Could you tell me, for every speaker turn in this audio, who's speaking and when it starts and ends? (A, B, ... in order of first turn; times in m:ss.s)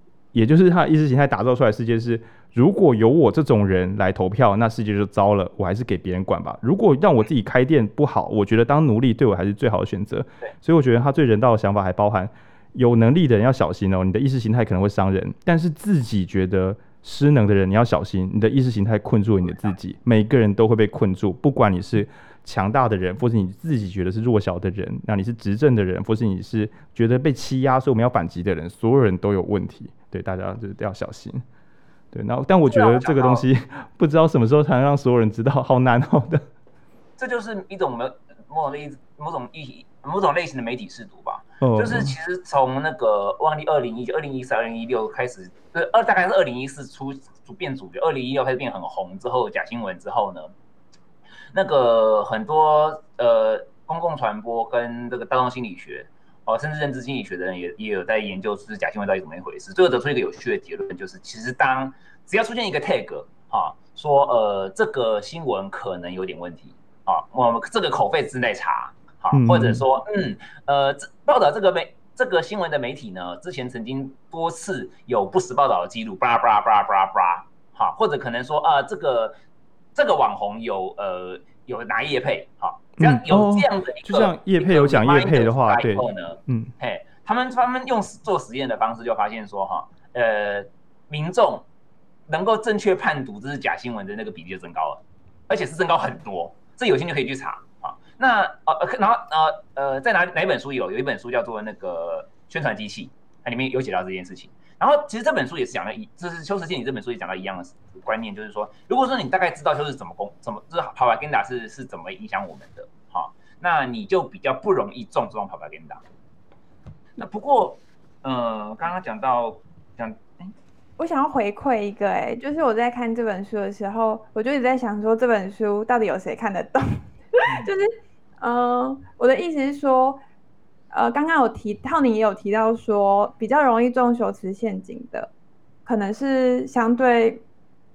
0:00.3-0:31.4 A
0:32.1-0:36.4 A
0:32.7-0:33.4 B
0:37.2-0:50.5 B
0:41.6-0:42.1 A
0:51.5-1:19.4 B
1:09.3-1:09.8 A
1:19.9-1:31.6 B
1:23.0-1:26.7 A
1:32.3-1:56.0 B
1:57.2-2:00.5 B
2:01.0-2:10.2 C
2:10.9-2:15.3 C
2:15.8-2:17.4 C